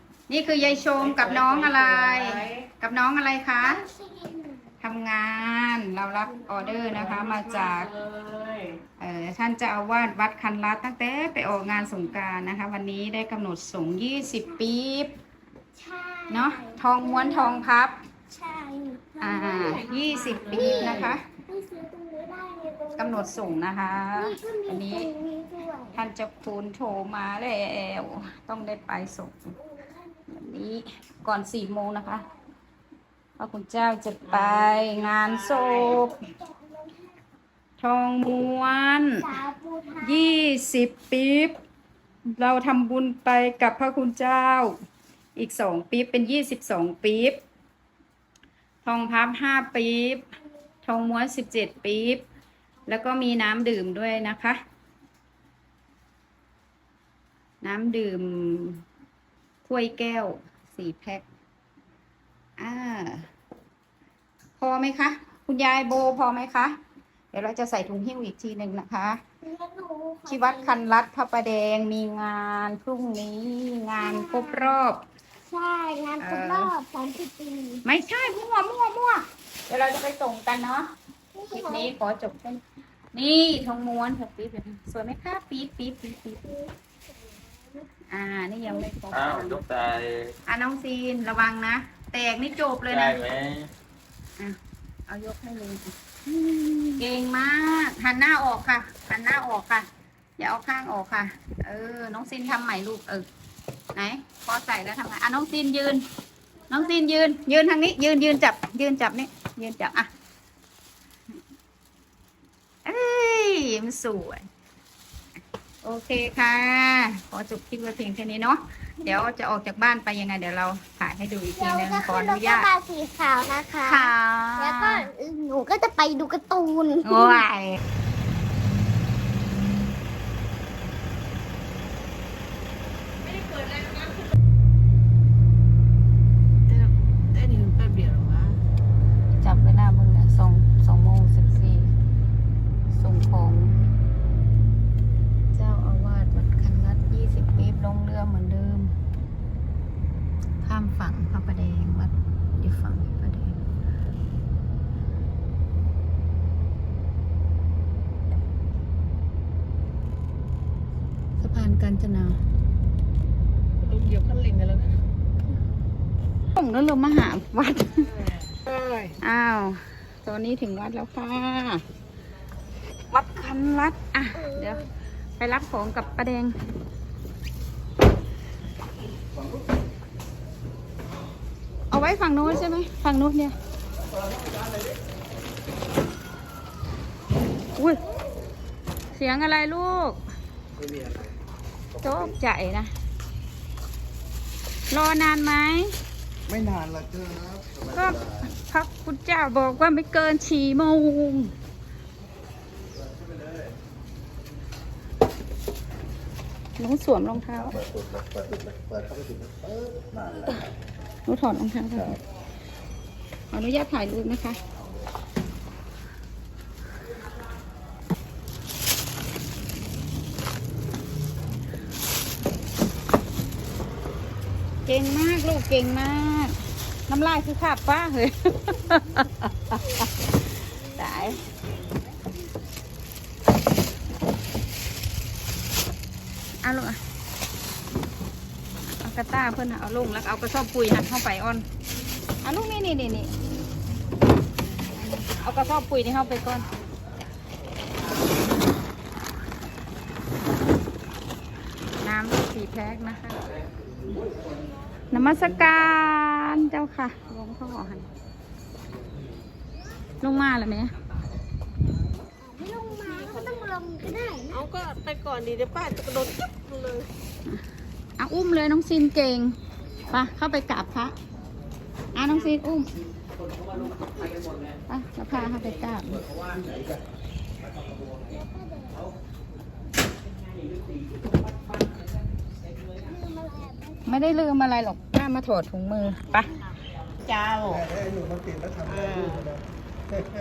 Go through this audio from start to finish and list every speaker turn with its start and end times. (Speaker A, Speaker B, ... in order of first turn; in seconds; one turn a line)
Speaker A: 0.3-3.8
Speaker B: 1.0-2.6
Speaker C: 3.6-4.7
Speaker A: 4.8-7.9
Speaker C: 6.5-6.9
Speaker B: 7.0-8.8
Speaker A: 9.0-15.1
Speaker C: 15.8-17.7
Speaker A: 16.3-18.0
Speaker C: 18.3-23.6
Speaker A: 19.2-21.2
Speaker B: 20.3-21.2
Speaker A: 23.0-25.1
Speaker C: 24.1-26.0
Speaker A: 25.9-29.5
Speaker A: 30.3-32.2
Speaker A: 33.4-36.1
Speaker B: 34.3-35.9
Speaker C: 35.8-37.1
Speaker A: 37.8-39.3
Speaker C: 39.2-40.4
Speaker A: 40.0-41.6
Speaker A: 42.3-44.7
Speaker A: 45.4-47.4
Speaker A: 48.8-50.2
Speaker A: 50.9-52.2
Speaker A: 52.9-54.6
Speaker A: 57.6-58.8
Speaker A: 59.7-61.2
Speaker A: 62.6-63.3
Speaker A: 64.6-66.8
Speaker A: 67.3-69.2
Speaker C: 69.4-70.8
Speaker A: 70.3-75.0
Speaker C: 74.0-74.8
Speaker C: 75.5-77.8
Speaker A: 76.2-76.7
Speaker A: 77.8-80.9
Speaker C: 81.3-81.9
Speaker A: 81.5-82.6
Speaker A: 83.1-86.5
Speaker A: 88.1-89.6
Speaker D: 89.1-90.3
Speaker A: 90.5-93.2
Speaker D: 92.9-93.7
Speaker A: 94.4-99.9
Speaker A: 100.4-103.3
Speaker A: 103.9-106.0
Speaker A: 106.7-110.1
Speaker A: 112.8-114.4
Speaker A: 115.8-122.7
Speaker C: 121.5-127.4
Speaker A: 123.8-125.0
Speaker A: 127.0-127.8
Speaker B: 133.3-134.0
Speaker B: 136.7-138.6
Speaker A: 139.4-141.9
Speaker A: 142.9-143.8
Speaker A: 145.5-148.9
Speaker A: 150.6-153.6
Speaker A: 161.4-162.4
Speaker B: 163.8-165.0
Speaker A: 166.6-168.1
Speaker B: 168.2-169.2
Speaker A: 169.2-171.8
Speaker A: 173.1-174.8
Speaker A: 175.4-176.5
Speaker A: 181.9-183.6
Speaker A: 189.1-190.2
Speaker A: 192.0-192.9
Speaker A: 194.9-195.9
Speaker E: 196.5-197.8
Speaker A: 197.9-201.5
Speaker A: 206.8-207.8
Speaker E: 207.9-210.4
Speaker A: 211.3-212.2
Speaker A: 213.5-214.6
Speaker A: 224.9-226.6
Speaker A: 227.1-229.5
Speaker A: 230.9-231.4
Speaker A: 236.6-237.0
Speaker A: 238.9-241.7
Speaker A: 242.4-243.3
Speaker A: 245.4-246.7
Speaker A: 252.0-253.4
Speaker A: 255.1-258.1
Speaker A: 260.2-260.9
Speaker C: 262.4-264.6
Speaker B: 263.0-263.7
Speaker B: 264.5-267.1
Speaker A: 268.2-269.6
Speaker A: 270.1-271.1
Speaker A: 272.1-272.9
Speaker A: 274.9-276.2
Speaker C: 278.3-279.0
Speaker C: 283.0-284.2
Speaker A: 284.1-286.5
Speaker B: 287.2-287.9
Speaker B: 288.9-289.5